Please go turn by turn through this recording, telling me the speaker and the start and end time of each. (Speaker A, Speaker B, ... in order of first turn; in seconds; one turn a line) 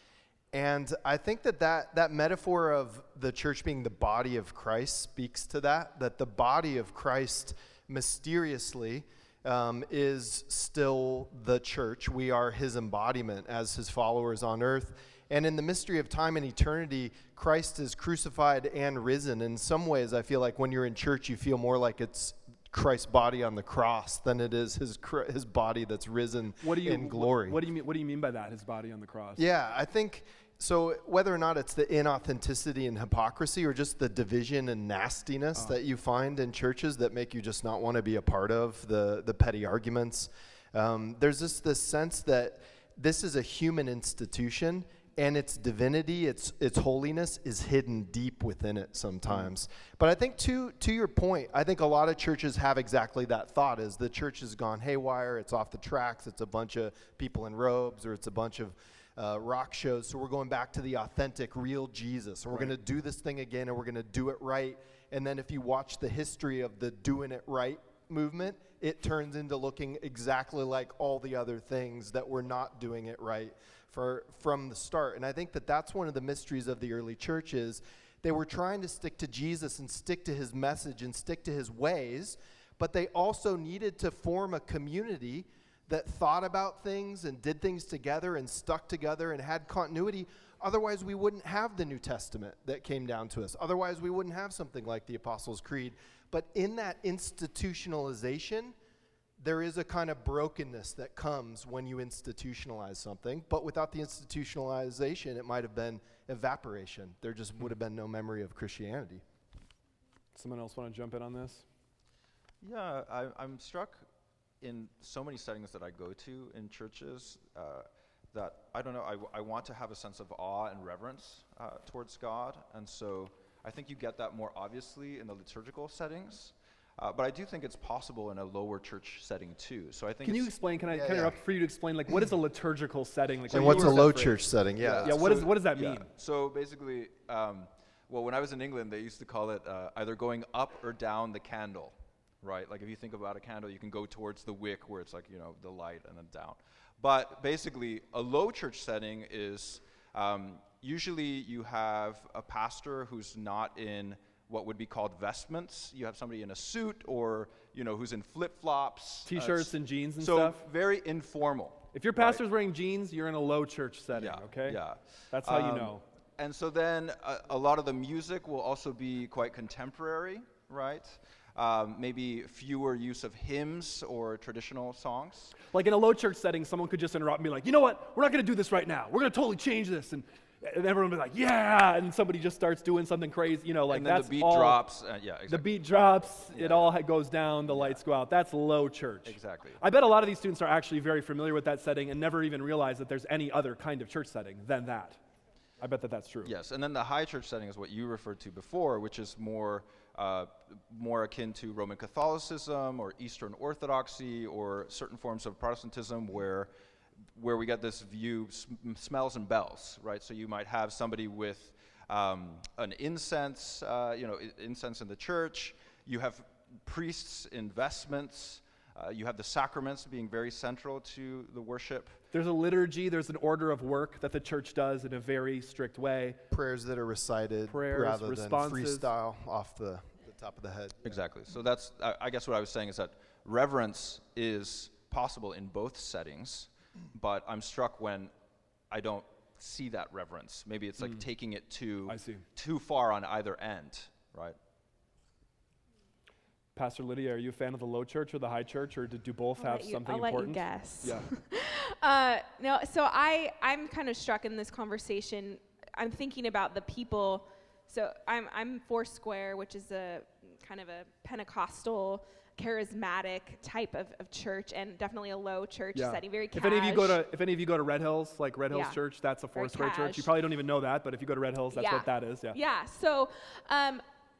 Speaker A: 0.5-27.6
Speaker B: 26.6-29.4
Speaker A: 29.4-98.8
Speaker A: 99.4-109.2
Speaker B: 110.3-111.7
Speaker C: 112.6-114.0
Speaker C: 114.6-130.5
Speaker B: 130.2-134.4
Speaker A: 130.9-131.4
Speaker C: 133.5-134.0
Speaker A: 133.5-135.4
Speaker C: 134.8-162.4
Speaker B: 135.0-136.1
Speaker B: 159.3-160.6
Speaker B: 161.9-164.8
Speaker C: 164.1-175.6
Speaker B: 165.3-166.0
Speaker B: 175.7-184.8
Speaker C: 183.9-185.7
Speaker B: 185.5-195.2
Speaker C: 186.5-187.0
Speaker C: 187.6-188.0
Speaker C: 189.2-189.8
Speaker B: 195.8-196.5
Speaker C: 196.4-206.7
Speaker C: 207.3-222.2
Speaker B: 222.3-226.4
Speaker A: 226.5-231.2
Speaker B: 227.7-229.1
Speaker C: 231.1-238.3
Speaker C: 238.9-244.6
Speaker B: 242.1-242.4
Speaker B: 246.8-251.3
Speaker D: 249.6-267.2
Speaker B: 265.9-272.6
Speaker D: 268.7-269.0
Speaker D: 269.6-270.3
Speaker D: 271.7-274.0